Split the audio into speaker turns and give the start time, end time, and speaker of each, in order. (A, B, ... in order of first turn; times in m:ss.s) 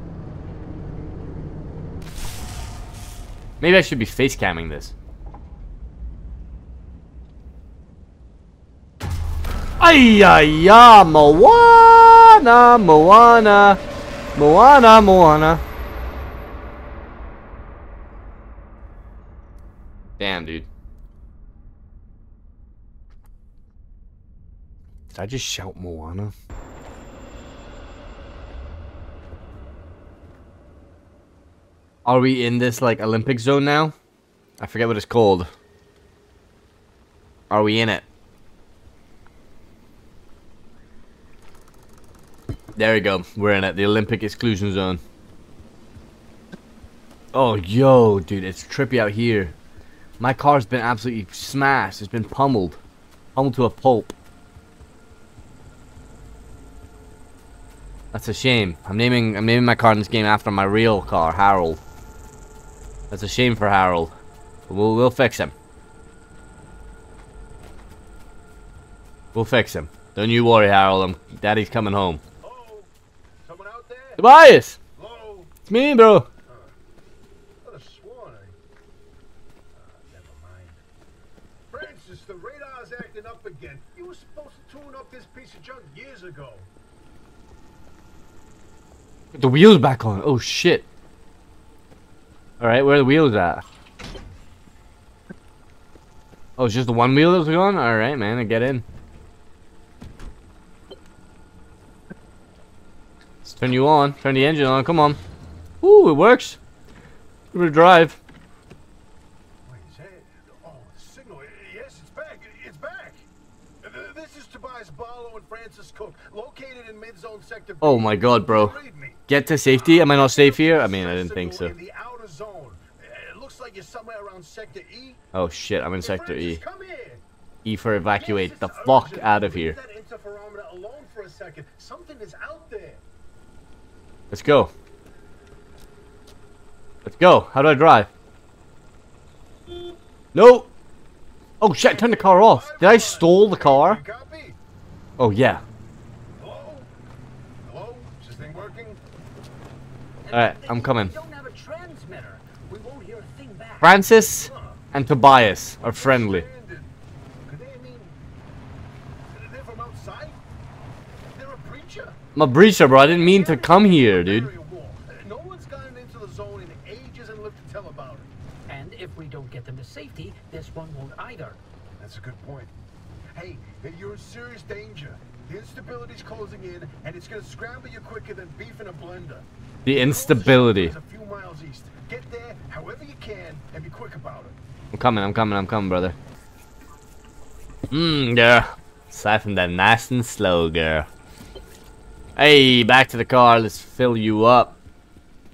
0:03.6-0:04.9 A
0:09.8-0:13.8 A
0:14.3-0:15.6 A
0:20.2-0:20.7 A
0:25.1-0:26.3 A
0:32.0-0:33.9 A
0:34.6-0:35.5 A
0:37.5-0:38.0 A
0:42.7-0:45.0 A
0:47.3-0:49.5 A
0:50.2-0:52.8 A
0:53.3-0:54.1 A
0:58.1-1:01.8 A
1:03.1-1:04.1 A
1:04.7-1:05.5 A
1:09.3-1:12.2 A
1:12.4-1:12.9 B
1:13.4-1:14.2 B
1:14.2-1:14.8 A
1:15.0-1:15.5 B
1:15.7-1:16.3 A
1:16.4-1:16.7 B
1:17.6-1:18.6 B
1:19.7-1:20.8 B
1:21.7-1:26.7 B
1:29.3-1:30.8 A
1:32.6-1:33.6 A
1:36.6-1:38.8 A
1:43.4-1:45.2 A
1:45.8-1:46.6 A
1:47.5-1:48.2 A
1:49.6-1:53.2 B
1:53.8-2:05.2 B
1:57.8-1:58.8 A
1:59.3-2:01.7 A
2:05.3-2:06.6 A
2:06.0-2:07.2 B
2:07.6-2:09.8 A
2:08.1-2:13.0 B
2:14.3-2:14.7 A
2:17.0-2:18.1 A
2:20.3-2:20.7 A
2:21.6-2:24.0 A
2:21.8-2:24.6 B
2:25.2-2:25.6 A
2:26.4-2:26.9 B
2:27.6-2:29.0 B
2:30.2-2:34.0 C
2:30.3-2:31.1 A
2:33.8-2:36.4 A
2:34.2-2:34.8 B
2:35.8-2:36.9 B
2:37.4-2:38.2 B
2:39.3-2:40.4 B
2:41.3-2:42.2 B
2:42.3-2:44.5 A
2:43.0-2:48.3 B
2:48.7-2:51.6 C
2:52.0-2:52.7 B
2:53.3-3:04.6 B
2:59.8-3:00.9 A
3:04.9-3:06.2 A
3:07.9-3:11.1 A
3:12.4-3:14.8 A